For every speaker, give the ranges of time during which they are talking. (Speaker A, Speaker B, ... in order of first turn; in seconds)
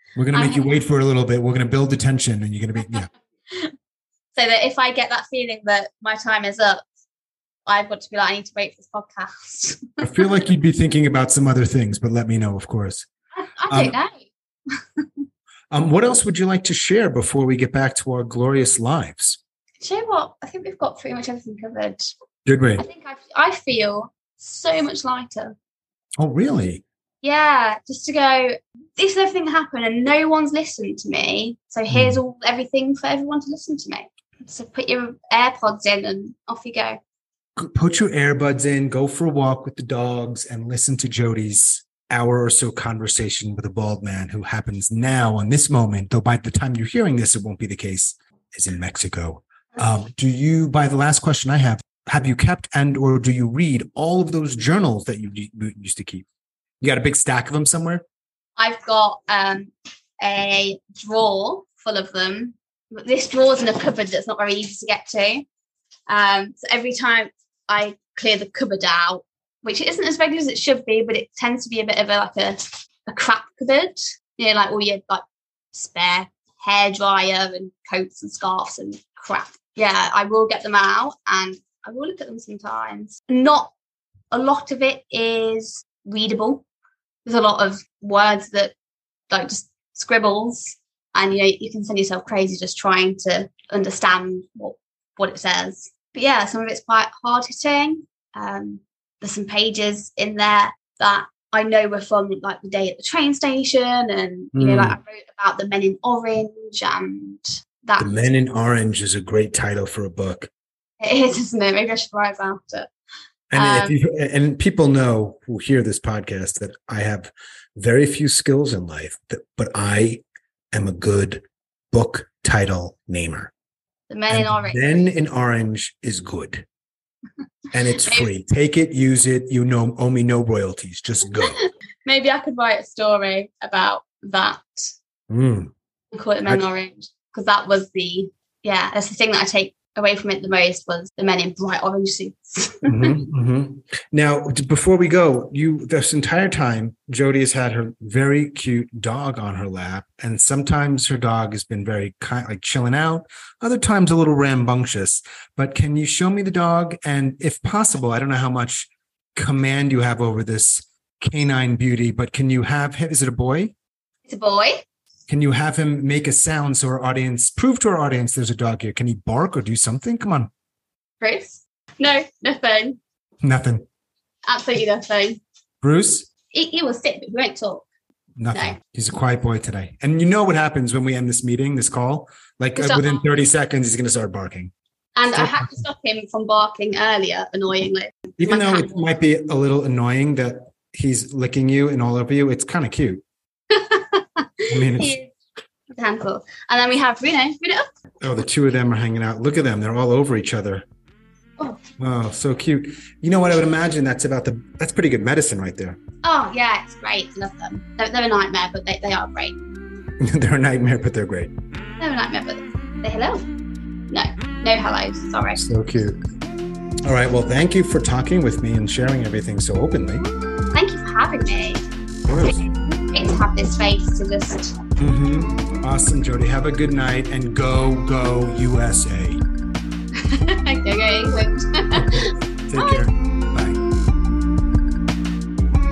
Speaker A: 0.1-3.1, 10.0-13.1, 13.7-13.9, 15.7-19.4, 22.4-22.8, 26.2-26.8, 31.9-32.2, 37.6-56.2, 56.8-58.0, 104.5-105.0, 108.0-110.5, 113.5-123.5, 124.3-126.6, 127.7-131.6, 135.3-135.7, 142.9-163.7, 165.3-170.5, 173.4-173.8, 175.8-176.3, 178.4-184.7, 185.3-185.8, 188.4-193.2, 194.7-195.2, 198.2-200.8, 202.0-206.0, 210.2-211.5, 215.6-216.2, 217.0-220.2, 222.3-222.7, 225.0-229.4, 231.9-233.8
Speaker B: 0.3-0.8, 2.9-3.7, 4.3-6.8, 7.7-10.4, 13.3-15.2, 19.8-22.1, 22.8-25.6, 27.2-37.0, 58.6-59.7, 60.2-65.5, 66.1-83.7, 84.3-86.6, 87.2-88.7, 89.3-108.1, 111.0-112.9, 113.5-113.9, 124.1-125.0, 127.9-128.3, 131.4-134.9, 136.1-143.1, 164.3-164.8, 171.2-173.0, 174.5-175.4, 176.5-177.8, 182.8-183.2, 185.2-188.9, 193.7-195.3, 195.9-197.8, 206.2-209.6, 212.0-213.5, 214.1-215.6, 220.7-221.8, 223.1-224.8, 230.2-233.0